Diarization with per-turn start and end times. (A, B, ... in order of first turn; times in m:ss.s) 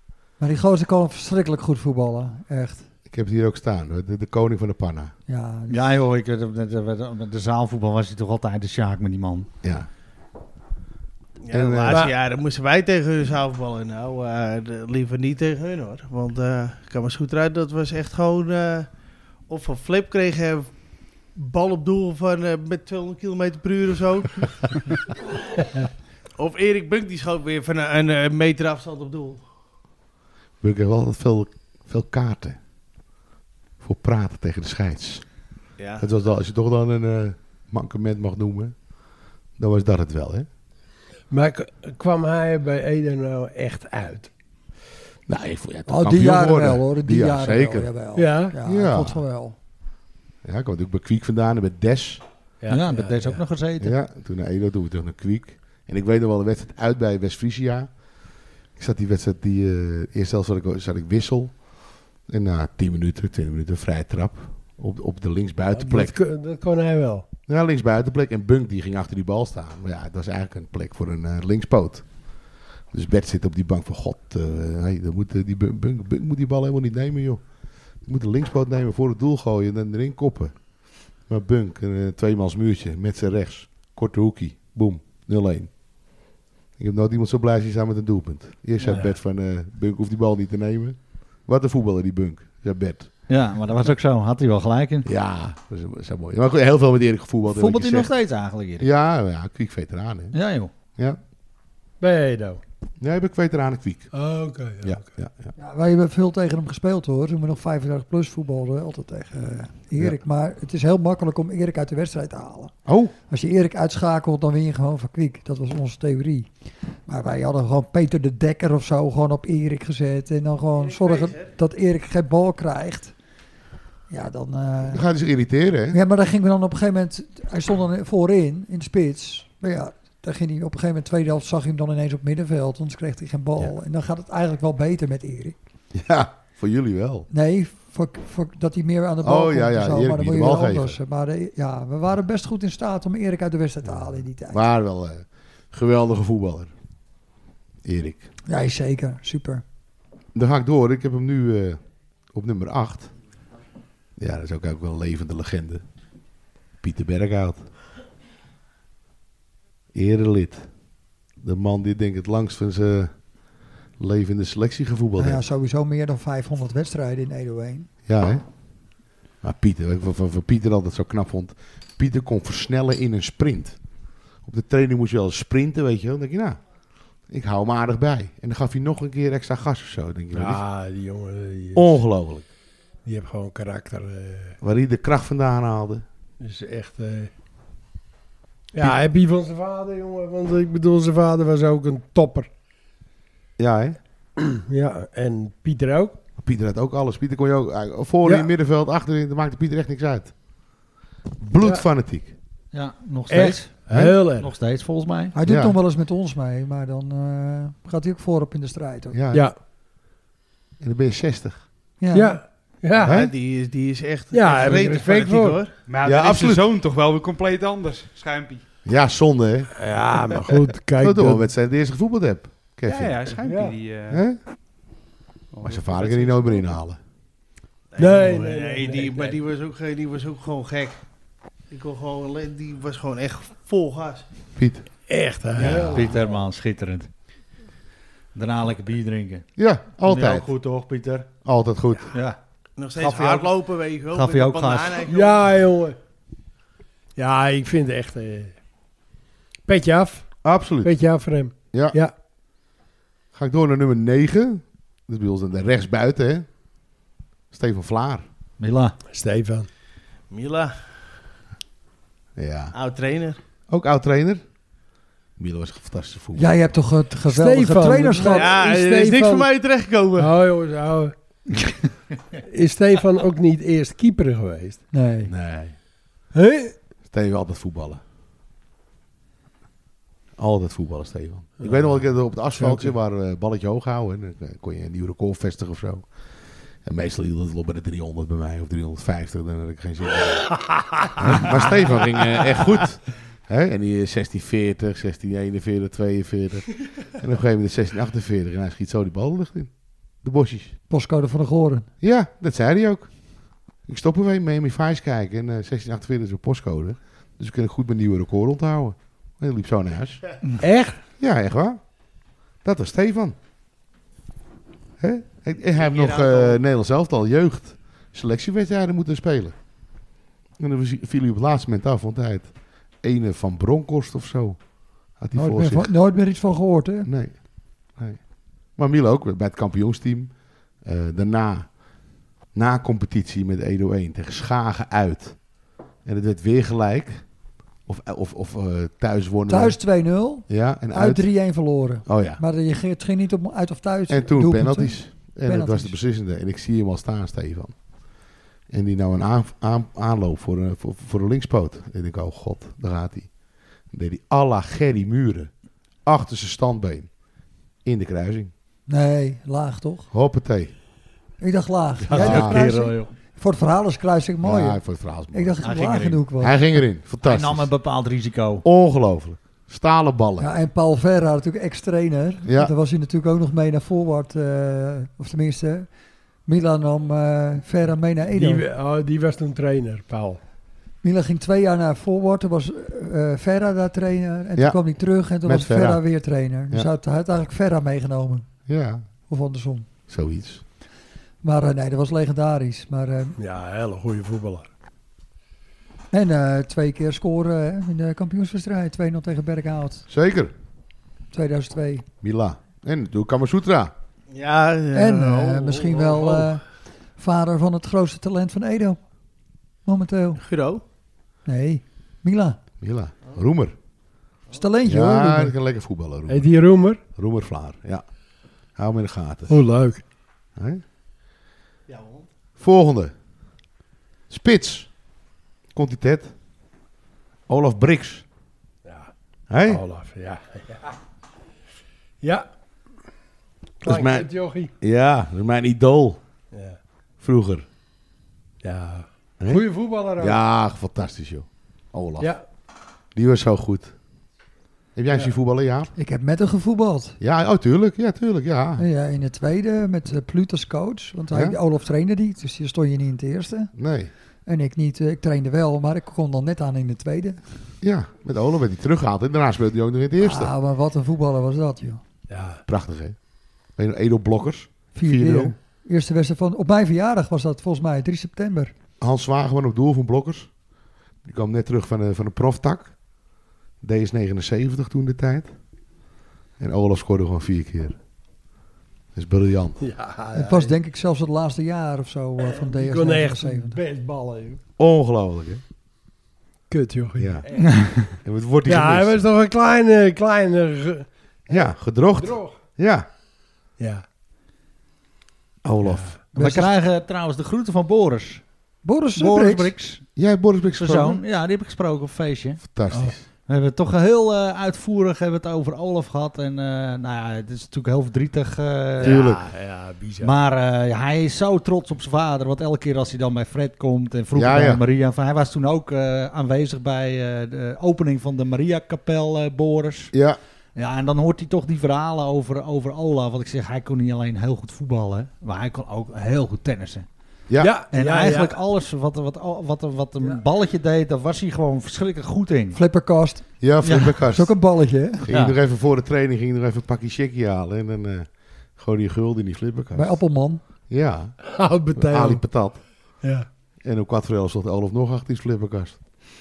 0:00.4-0:02.8 A
0:03.1-0:05.1 B
0:05.3-0:05.8 A
0:05.7-0:09.5 C
0:09.6-0:09.9 B
0:11.4-0:18.9 D
0:11.5-0:12.0 B
0:19.5-0:20.8 D
0:21.3-0:24.7 D
0:26.4-0:29.4 D
0:30.6-0:32.6 B
0:33.8-0:35.2 B
0:35.8-0:36.1 D
0:36.0-0:38.7 B
0:39.6-0:40.5 B
0:41.3-0:44.3 E
0:45.3-0:47.9 B
0:45.9-0:49.6 A
0:48.1-0:48.6 E
0:48.6-0:49.2 B
0:50.4-0:52.2 B
0:52.6-0:53.4 E
0:52.7-0:54.0 C
0:53.8-0:57.9 B
0:58.8-1:01.6 B
1:02.3-1:06.2 B
1:05.7-1:07.2 E
1:07.5-1:12.1 B
1:12.9-1:17.4 B
1:18.0-1:20.6 B
1:21.2-1:25.7 B
1:26.8-1:33.1 B
1:33.3-1:35.1 C
1:35.0-1:38.1 B
1:37.5-1:38.9 C
1:38.8-1:40.4 B
1:40.3-1:40.7 C
1:42.0-1:42.6 E
1:43.0-1:44.1 B
1:44.1-1:45.1 E
1:44.8-1:45.5 B
1:45.6-1:52.7 A
1:52.8-1:53.1 B
1:53.3-1:56.5 A
1:57.1-2:03.1 A
2:00.8-2:01.5 D
2:04.1-2:05.0 A
2:04.8-2:06.0 B
2:05.9-2:15.6 A
2:15.9-2:17.3 B
2:17.3-2:24.6 A
2:19.2-2:21.0 B
2:24.5-2:26.7 B
2:27.8-2:28.3 B
2:28.5-2:29.6 A
2:30.3-2:31.8 B
2:32.3-2:33.1 B
2:34.2-2:35.8 B
2:36.8-2:37.6 B
2:39.9-2:40.7 B
2:41.4-2:43.1 B
2:44.0-2:45.4 B
2:45.2-2:47.9 A
2:48.1-2:48.4 B
2:49.4-2:53.8 B
2:54.4-2:56.6 B
2:57.3-3:00.6 B
3:00.3-3:02.0 E
3:01.7-3:02.4 B
3:03.0-3:04.6 E
3:04.6-3:06.0 B
3:06.4-3:07.3 E
3:08.7-3:12.5 E
3:13.6-3:14.0 B
3:14.4-3:16.2 E
3:16.4-3:20.3 B
3:18.2-3:18.5 E
3:21.4-3:22.3 B
3:22.7-3:25.3 C
3:23.3-3:24.5 E
3:23.9-3:24.2 B
3:25.3-3:29.2 A
3:25.4-3:25.8 B
3:29.1-3:29.4 B
3:30.8-3:31.6 B
3:32.0-3:32.4 A
3:32.1-3:33.2 E
3:33.0-3:35.7 D
3:33.0-3:33.3 B
3:34.3-3:35.6 E
3:35.8-3:38.6 F
3:36.0-3:36.6 B
3:38.8-3:39.7 B
3:39.8-3:41.4 E
3:41.0-3:43.3 B
3:42.8-3:44.2 F
3:43.3-3:43.8 E
3:44.1-3:44.4 B
3:45.5-3:46.7 F
3:45.6-3:47.0 B
3:47.9-3:51.0 D
3:48.0-3:49.4 E
3:51.7-3:54.2 D
3:54.6-3:54.8 B
3:55.1-3:56.3 E
3:55.6-3:57.1 C
3:55.6-3:56.1 B
3:58.3-3:59.4 C
3:59.6-4:00.5 B
4:00.0-4:01.3 C
4:01.4-4:02.1 B
4:02.1-4:02.4 C
4:02.8-4:05.5 D
4:03.0-4:03.5 C
4:04.1-4:05.0 C
4:05.0-4:06.0 E
4:07.2-4:08.5 E
4:09.7-4:10.3 E
4:10.4-4:11.0 B
4:10.8-4:12.1 E
4:11.7-4:12.0 B
4:13.3-4:16.4 B
4:17.5-4:18.2 B
4:18.6-4:19.0 C
4:19.1-4:19.7 E
4:20.3-4:20.8 D
4:22.4-4:22.7 B
4:22.7-4:23.4 D
4:23.7-4:24.4 B
4:25.4-4:26.6 B
4:26.4-4:28.6 A
4:27.2-4:29.5 E
4:28.3-4:30.3 D
4:30.2-4:31.1 E
4:32.4-4:34.8 E
4:34.9-4:35.3 A
4:35.3-4:35.7 B
4:36.3-4:36.7 E
4:37.1-4:38.0 B
4:40.4-4:46.1 B
4:41.6-4:42.0 E
4:42.5-4:42.9 E
4:46.8-4:50.6 B
4:50.5-4:51.4 E
4:51.2-4:59.7 B
5:00.2-5:00.7 B
5:00.9-5:01.9 A
5:02.0-5:03.1 B
5:03.9-5:10.2 B
5:10.6-5:11.0 E
5:11.2-5:11.8 B
5:12.6-5:13.4 B
5:15.0-5:19.6 B
5:15.7-5:16.6 D
5:20.6-5:24.6 B
5:25.2-5:25.9 B
5:25.3-5:27.1 A
5:27.0-5:27.4 B
5:28.8-5:31.7 B
5:32.5-5:35.4 B
5:36.0-5:37.2 B
5:37.8-5:39.8 B
5:39.5-5:46.0 A
5:40.5-5:41.3 B
5:42.0-5:42.4 B
5:44.1-5:47.8 B
5:48.7-5:53.3 B
5:53.9-5:55.5 B
5:56.0-5:57.1 B
5:57.8-5:58.5 B
5:58.9-6:00.1 A
6:00.1-6:00.7 B
6:01.4-6:06.6 A
6:02.1-6:02.6 B
6:02.1-6:03.1 C
6:04.4-6:05.6 B
6:05.6-6:06.2 C
6:06.4-6:07.7 B
6:07.2-6:08.6 C
6:08.6-6:10.5 B
6:10.4-6:15.9 A
6:12.4-6:12.7 B
6:16.4-6:18.6 A
6:18.3-6:20.4 E
6:21.0-6:28.5 A
6:24.6-6:26.0 B
6:28.7-6:29.0 B
6:29.3-6:29.8 A
6:30.1-6:30.6 B
6:31.4-6:33.4 A
6:33.4-6:34.7 E
6:36.1-6:40.0 A
6:40.1-6:40.5 B
6:41.3-6:42.0 A
6:42.2-6:43.9 B
6:44.3-6:46.4 D
6:44.9-6:46.6 A
6:47.2-6:49.0 A
6:49.8-6:50.4 A
6:50.4-6:50.8 D
6:51.4-6:52.6 A
6:52.8-6:53.7 B
6:54.5-6:55.6 A
6:54.8-6:56.5 B
6:56.3-6:57.0 E
6:57.1-6:58.0 B
6:58.8-6:59.6 B
6:59.5-7:00.0 E
7:00.6-7:00.8 B
7:01.9-7:02.3 D
7:02.6-7:03.1 B
7:04.3-7:04.9 B
7:05.7-7:06.3 B
7:07.5-7:08.2 B
7:08.8-7:09.1 E
7:09.5-7:09.8 B
7:09.6-7:10.9 E
7:13.8-7:14.7 E
7:13.8-7:16.2 B
7:16.5-7:16.8 E
7:17.2-7:17.6 B
7:18.6-7:20.4 E
7:19.4-7:19.6 B
7:20.2-7:22.3 B
7:23.1-7:23.9 B
7:25.0-7:25.9 B
7:26.0-7:27.2 A
7:27.2-7:28.8 B
7:28.8-7:33.7 A
7:31.3-7:31.6 B
7:33.7-7:34.1 B
7:34.4-7:37.4 A
7:37.8-7:40.5 B
7:40.2-7:42.0 A
7:42.3-7:42.6 E
7:42.7-7:43.2 B
7:43.8-7:45.5 B
7:44.9-7:48.7 A
7:49.0-7:50.5 B
7:51.2-7:53.0 B
7:53.8-7:55.5 B
7:56.6-7:58.0 B
7:59.1-7:59.9 B
7:59.8-8:00.7 E
8:00.3-8:03.8 A
8:02.4-8:04.6 E
8:04.8-8:05.6 B
8:06.7-8:08.1 E
8:07.2-8:09.2 B
8:08.6-8:12.6 E
8:11.5-8:13.1 B
8:13.8-8:14.0 E
8:15.6-8:16.1 B
8:15.8-8:16.2 E
8:16.3-8:18.4 C
8:16.3-8:16.7 A
8:18.8-8:19.7 A
8:19.2-8:20.0 C
8:20.2-8:21.2 B
8:20.8-8:22.6 C
8:22.6-8:23.2 B
8:22.9-8:23.2 E
8:23.5-8:29.2 C
8:29.0-8:30.3 E
8:29.0-8:29.4 B
8:30.2-8:40.1 C
8:34.3-8:34.8 B
8:40.1-8:40.4 B
8:40.8-8:47.0 C
8:47.6-8:48.6 E
8:47.9-8:52.8 C
8:52.7-8:53.5 A
8:53.6-8:54.5 B
8:53.8-8:54.1 C
8:54.3-8:55.2 A
8:55.2-9:00.2 B
8:55.3-8:55.6 C
8:59.9-9:00.6 A
9:00.9-9:01.4 B
9:01.4-9:02.4 E
9:01.9-9:02.8 B
9:03.2-9:03.5 E
9:03.8-9:06.0 B